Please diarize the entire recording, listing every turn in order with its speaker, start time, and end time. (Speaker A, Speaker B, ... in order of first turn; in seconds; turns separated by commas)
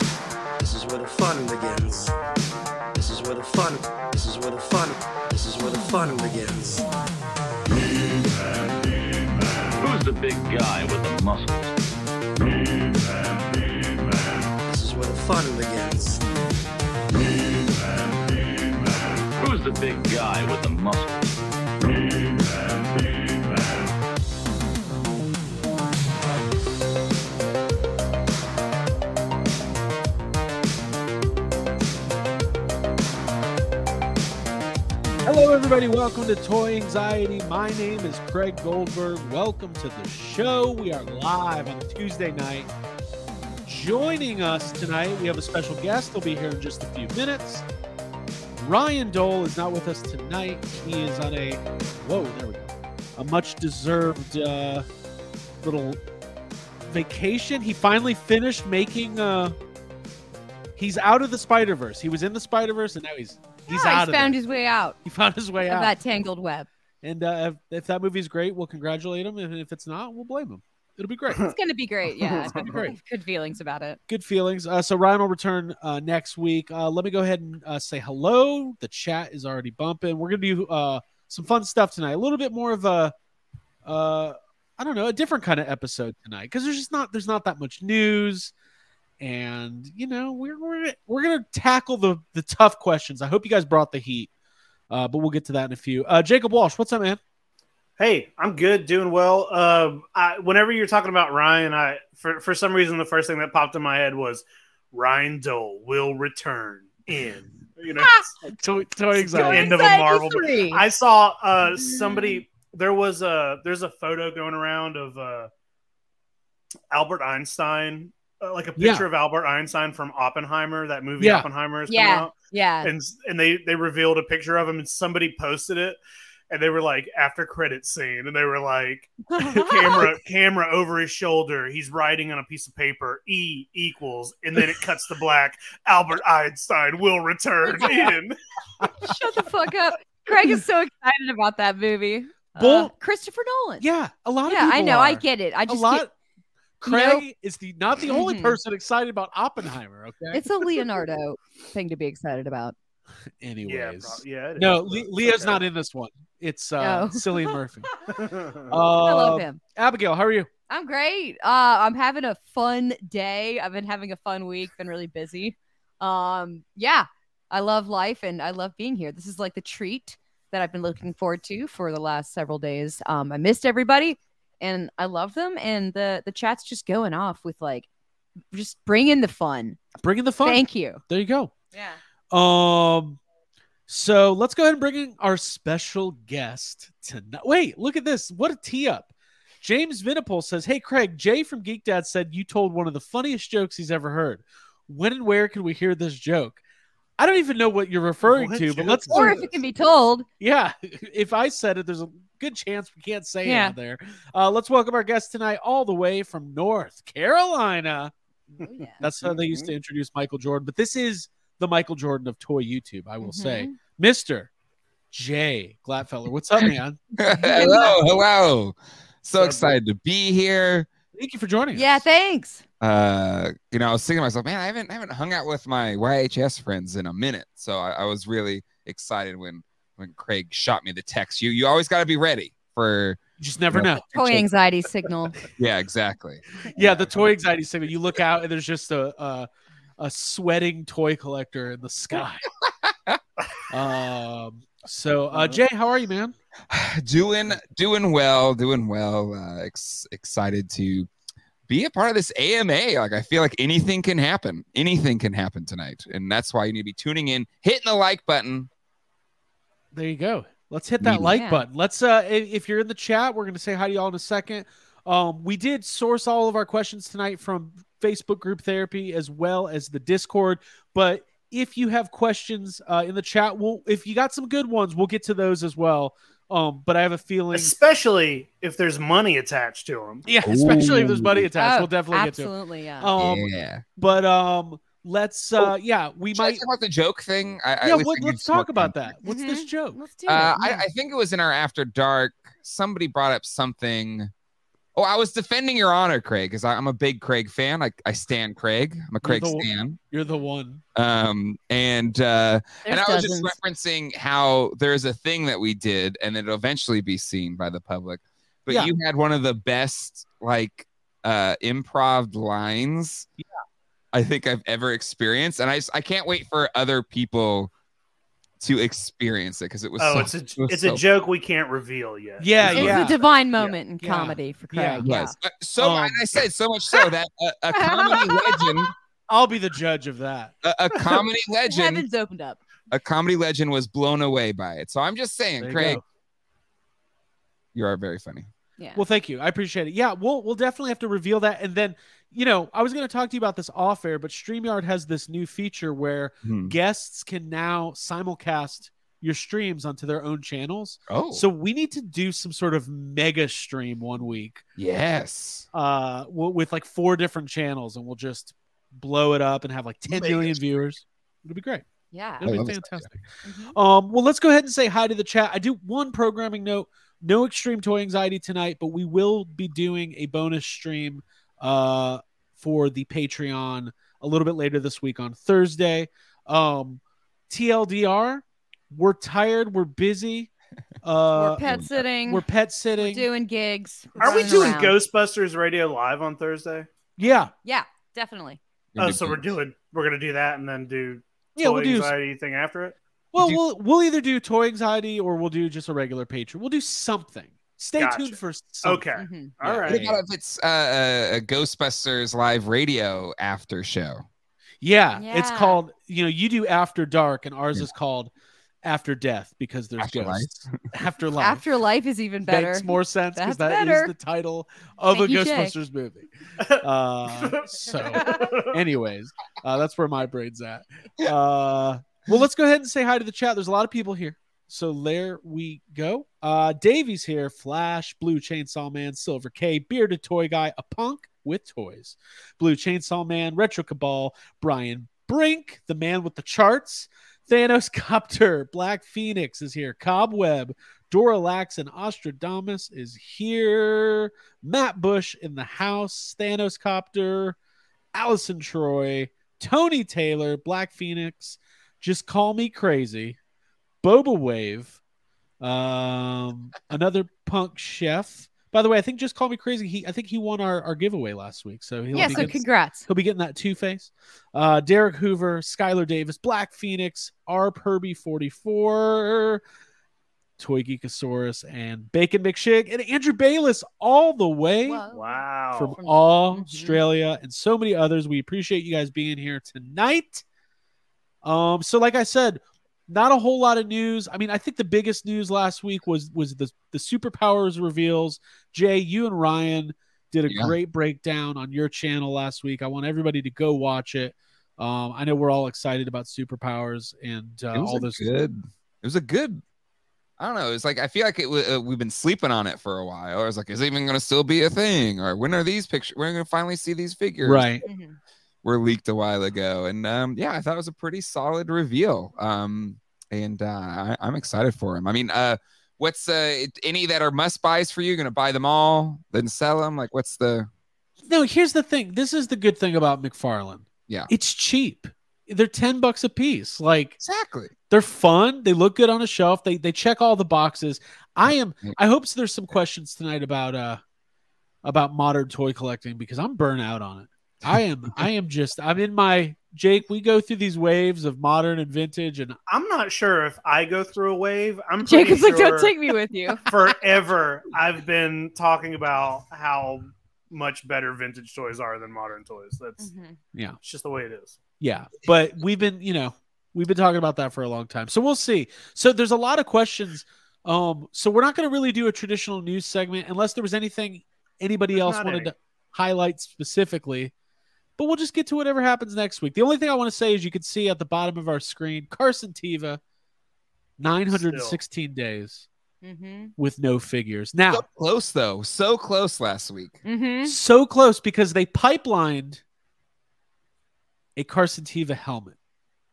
Speaker A: 0.6-2.1, Speaker A: 2.9-6.9, Speaker B: 9.8-11.8, Speaker B: 12.8-13.8, Speaker A: 14.7-16.2, Speaker B: 19.4-21.4, Speaker B: 22.2-23.4, Speaker C: 35.2-42.7, Speaker C: 43.7-47.7, Speaker C: 48.6-54.9, Speaker C: 55.6-56.0, Speaker C: 56.9-59.6, Speaker C: 60.8-64.4, Speaker D: 63.7-65.0, Speaker C: 65.0-65.9, Speaker D: 65.6-66.7, Speaker C: 67.0-71.5, Speaker D: 71.5-74.0, Speaker C: 72.4-73.0, Speaker C: 74.1-83.1, Speaker C: 83.8-88.5, Speaker C: 89.2-94.3, Speaker C: 94.9-97.2, Speaker E: 98.0-108.5, Speaker D: 108.0-108.3, Speaker C: 108.6-109.8, Speaker D: 109.1-110.8, Speaker E: 109.2-115.5, Speaker D: 111.8-112.4, Speaker E: 116.9-138.9, Speaker C: 118.8-119.1, Speaker C: 121.2-121.5, Speaker D: 121.9-122.9, Speaker D: 129.3-130.1, Speaker D: 137.7-138.1, Speaker D: 139.0-143.9, Speaker C: 142.6-142.9, Speaker C: 143.8-146.1, Speaker D: 144.5-146.1, Speaker C: 146.8-150.4, Speaker D: 146.8-147.2, Speaker D: 148.1-148.6, Speaker D: 150.3-152.8, Speaker C: 153.4-157.9, Speaker E: 153.7-155.6, Speaker D: 156.8-157.6, Speaker E: 158.1-158.8, Speaker C: 158.7-160.5, Speaker D: 159.0-159.6, Speaker D: 160.7-177.9, Speaker D: 178.5-179.8, Speaker C: 180.0-181.5, Speaker D: 180.4-181.0, Speaker D: 181.7-182.0, Speaker C: 182.3-183.2, Speaker C: 183.9-196.6, Speaker C: 197.2-199.5, Speaker E: 198.2-199.5, Speaker D: 199.1-200.3, Speaker C: 200.4-208.1, Speaker D: 203.4-203.8, Speaker D: 208.6-209.0, Speaker C: 209.0-214.5, Speaker E: 209.2-209.7, Speaker D: 213.2-213.8, Speaker C: 215.1-217.0, Speaker F: 217.2-220.9, Speaker D: 217.4-218.0, Speaker E: 219.4-219.7, Speaker C: 221.1-222.1, Speaker D: 221.7-222.6, Speaker F: 222.8-233.2, Speaker C: 233.4-234.0, Speaker F: 233.7-234.5, Speaker D: 234.1-235.4, Speaker F: 235.6-237.1, Speaker C: 236.7-242.5, Speaker F: 242.9-243.2, Speaker C: 243.7-246.3, Speaker E: 245.3-245.6, Speaker F: 246.7-251.1, Speaker F: 251.7-258.7, Speaker C: 259.9-277.8, Speaker F: 261.0-261.4, Speaker D: 261.3-261.7, Speaker E: 277.5-280.3, Speaker C: 280.2-286.6, Speaker F: 280.4-281.5, Speaker D: 281.6-283.1, Speaker F: 283.2-283.8, Speaker F: 286.3-289.1, Speaker C: 287.8-290.0, Speaker D: 289.2-290.9, Speaker F: 290.3-294.3, Speaker F: 295.0-300.0, Speaker C: 299.2-300.8, Speaker F: 300.9-313.3, Speaker D: 302.9-303.6, Speaker C: 308.7-308.9, Speaker F: 314.1-317.7, Speaker F: 318.6-321.0, Speaker E: 320.0-323.1, Speaker C: 322.4-325.0, Speaker F: 322.6-323.0, Speaker D: 322.7-325.3, Speaker F: 325.0-328.9, Speaker C: 325.8-326.2, Speaker D: 327.7-328.9, Speaker C: 329.3-330.6, Speaker F: 330.6-332.1, Speaker D: 331.7-332.6, Speaker F: 332.9-336.0, Speaker C: 335.6-336.0, Speaker F: 337.7-338.5, Speaker D: 338.8-339.0, Speaker C: 339.0-354.6, Speaker F: 346.4-346.8, Speaker F: 351.1-351.5, Speaker F: 354.8-355.7, Speaker C: 355.7-361.9, Speaker F: 360.1-360.4, Speaker D: 362.1-362.4, Speaker C: 362.4-380.5, Speaker F: 362.4-363.1, Speaker D: 363.4-363.8, Speaker C: 381.0-383.3, Speaker D: 381.3-382.4, Speaker D: 383.0-385.0, Speaker E: 384.2-386.9, Speaker C: 384.2-384.8, Speaker C: 387.2-387.5, Speaker D: 387.6-388.6, Speaker F: 389.0-389.5, Speaker E: 389.0-393.0, Speaker C: 391.6-392.1, Speaker C: 393.3-399.1, Speaker E: 398.0-400.0, Speaker D: 399.2-399.5, Speaker C: 399.6-400.2, Speaker F: 399.9-404.2, Speaker C: 404.8-408.3, Speaker D: 405.2-405.8, Speaker C: 408.8-411.7, Speaker F: 410.0-410.8, Speaker D: 411.4-414.1, Speaker C: 412.5-447.6, Speaker D: 415.1-415.8, Speaker E: 417.4-418.8, Speaker D: 418.1-418.5, Speaker C: 448.1-453.4, Speaker C: 454.0-455.0, Speaker C: 455.6-469.6, Speaker D: 462.1-463.1, Speaker C: 470.6-475.0, Speaker D: 474.8-477.0, Speaker E: 475.1-476.0, Speaker C: 475.8-480.4, Speaker C: 481.4-498.3, Speaker F: 490.5-490.7, Speaker F: 497.7-499.6, Speaker F: 500.4-507.7, Speaker C: 507.4-507.8, Speaker D: 507.9-508.2, Speaker F: 508.6-520.7, Speaker C: 521.2-527.2, Speaker F: 527.2-527.7, Speaker C: 527.9-534.0, Speaker F: 531.5-532.0, Speaker C: 534.8-542.6, Speaker F: 537.6-538.3, Speaker E: 542.7-546.0, Speaker D: 545.0-546.6, Speaker E: 546.7-553.1, Speaker D: 553.0-553.4, Speaker E: 553.8-554.6, Speaker C: 554.8-567.3, Speaker E: 565.0-565.5, Speaker C: 568.0-573.0, Speaker C: 574.0-575.7, Speaker E: 574.3-574.8, Speaker D: 576.0-576.5, Speaker C: 576.6-577.9, Speaker F: 577.7-580.0, Speaker D: 580.0-580.6, Speaker C: 580.5-582.6, Speaker C: 584.4-585.6